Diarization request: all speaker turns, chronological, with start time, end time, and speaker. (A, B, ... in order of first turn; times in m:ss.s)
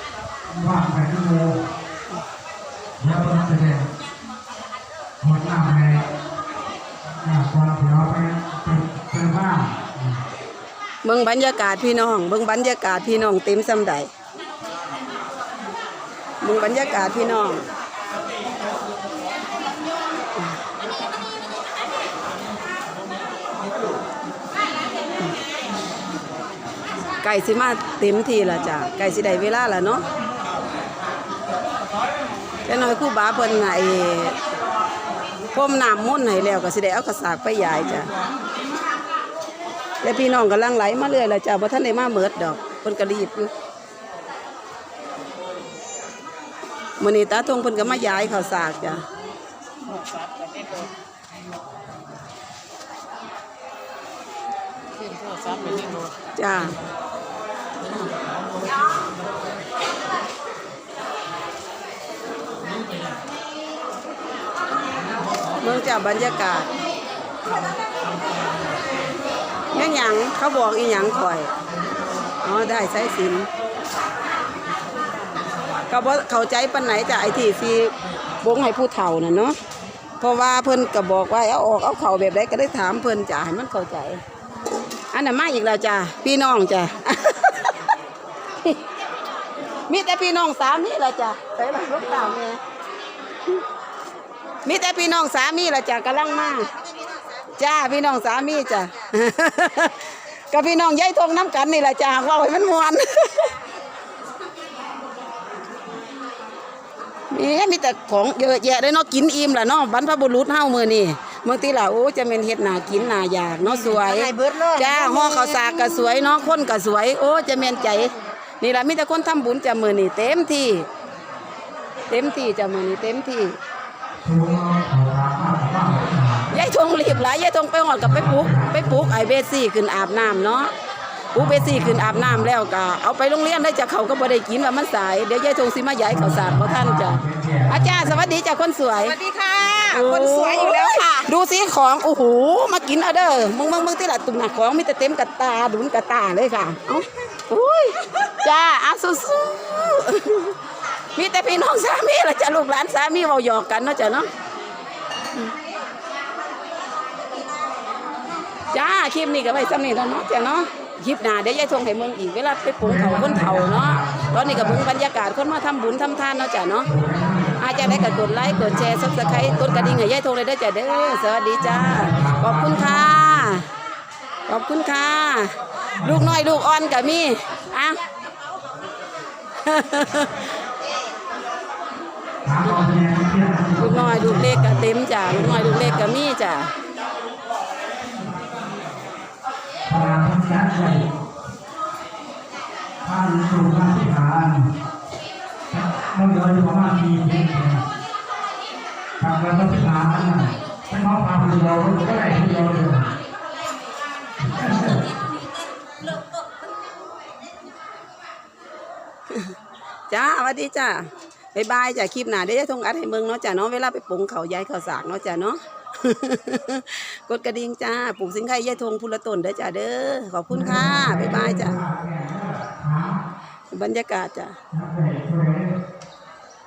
0:00.5-0:01.6 A
0:03.0-0:03.9 A
0:05.2-0:06.1 A
0:07.0-0:10.2 A
0:11.0-0:14.1 B
0:16.4-0:17.6 B
0:27.2-0:30.0 B
0:32.7-0:34.4 B
0:35.5-0:38.1 B
0:40.0-0:43.5 B
0:47.0-0:49.0 B
0:49.9-0:50.9 C
0:55.0-0:56.1 C
0:56.4-0:56.8 B
1:05.6-1:06.7 B
1:09.7-1:11.5 B
1:12.4-1:13.5 B
1:15.9-1:19.6 B
1:20.2-1:24.2 B
1:25.1-1:27.8 B
1:29.9-1:32.6 B
1:34.6-1:36.7 B
1:37.6-1:43.6 B
1:47.3-2:00.9 B
1:53.9-1:55.7 C
2:02.1-2:03.6 B
2:04.2-2:07.2 A
2:06.5-2:10.7 B
2:08.0-2:09.2 A
2:11.3-2:19.2 B
2:11.4-2:12.5 A
2:16.1-2:18.3 A
2:19.1-2:21.1 C
2:19.9-2:30.6 B
2:31.2-2:34.3 B
2:38.7-2:46.9 B
2:42.8-2:44.9 A
2:46.8-2:50.0 A
2:47.6-2:53.6 B
2:51.6-2:53.5 A
2:54.5-2:58.0 B
2:56.0-2:56.4 A
2:59.6-3:00.4 B
3:02.4-3:06.1 A
3:03.8-3:06.7 B
3:09.9-3:11.1 A
3:13.0-3:14.8 A
3:15.7-3:17.9 A
3:19.2-3:23.1 A
3:24.4-3:25.1 A
3:30.1-3:41.8 B
3:40.5-3:43.2 A
3:43.7-3:44.6 B
3:44.7-3:45.8 A